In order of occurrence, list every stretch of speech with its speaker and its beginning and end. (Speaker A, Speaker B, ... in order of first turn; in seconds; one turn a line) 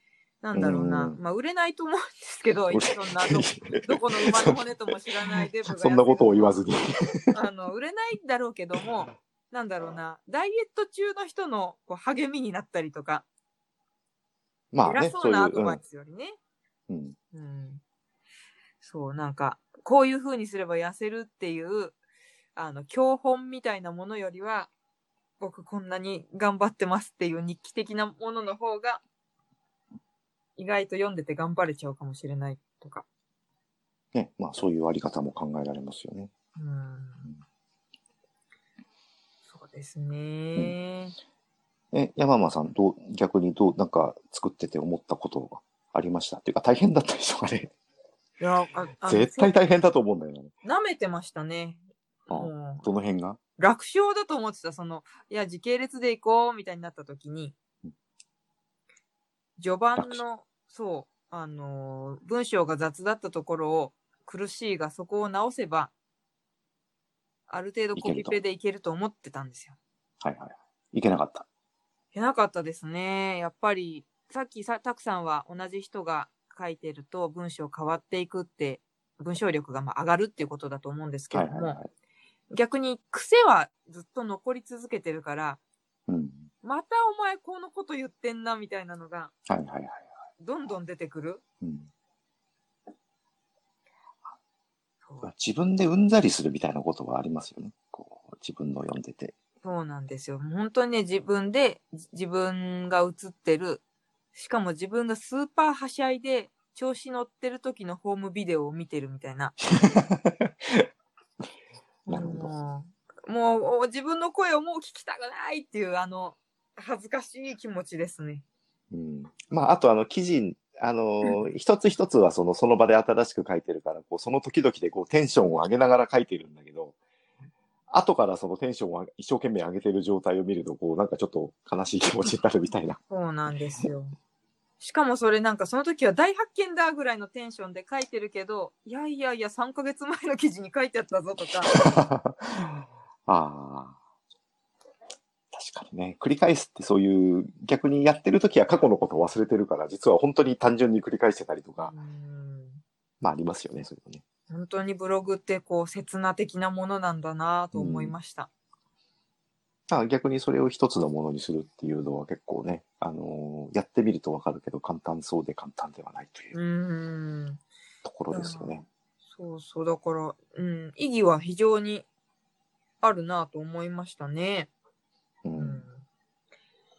Speaker A: 0.4-6.6
Speaker B: 0.5-1.2
Speaker B: 2.7-4.6
Speaker B: 5.4-7.4
Speaker A: 7.3-13.2
Speaker B: 14.7-15.8
Speaker A: 14.8-16.4
Speaker B: 16.9-17.2
Speaker A: 17.3-17.8
Speaker A: 18.8-22.0
Speaker A: 22.6-24.7
Speaker A: 25.4-29.0
Speaker A: 30.6-33.1
Speaker B: 34.1-36.3
Speaker A: 36.6-37.3
Speaker A: 39.5-41.1
Speaker B: 41.9-47.7
Speaker A: 48.4-49.5
Speaker B: 49.0-50.5
Speaker A: 50.6-52.9
Speaker B: 52.3-53.4
Speaker A: 53.6-57.5
Speaker A: 59.6-65.9
Speaker A: 67.5-69.8
Speaker B: 68.0-68.4
Speaker B: 70.2-71.5
Speaker A: 72.1-81.8
Speaker B: 81.3-81.9
Speaker A: 82.5-85.6
Speaker B: 86.1-86.5
Speaker A: 86.6-89.3
Speaker B: 89.5-90.1
Speaker A: 90.4-91.4
Speaker B: 91.6-91.9
Speaker B: 95.2-99.3
Speaker A: 99.6-103.8
Speaker A: 104.3-109.6
Speaker B: 109.7-110.9
Speaker A: 112.1-118.4
Speaker B: 112.1-112.5
Speaker B: 118.9-127.0
Speaker B: 127.9-133.0
Speaker A: 133.1-134.2
Speaker A: 134.8-141.8
Speaker B: 141.7-144.0
Speaker B: 145.5-151.9
Speaker A: 151.8-152.8
Speaker B: 153.2-154.2
Speaker A: 154.5-158.5
Speaker B: 157.7-158.2
Speaker B: 159.9-166.5
Speaker A: 166.5-167.6
Speaker B: 168.1-168.8
Speaker A: 168.3-172.1
Speaker A: 173.0-174.7
Speaker B: 175.4-175.8
Speaker A: 175.6-176.0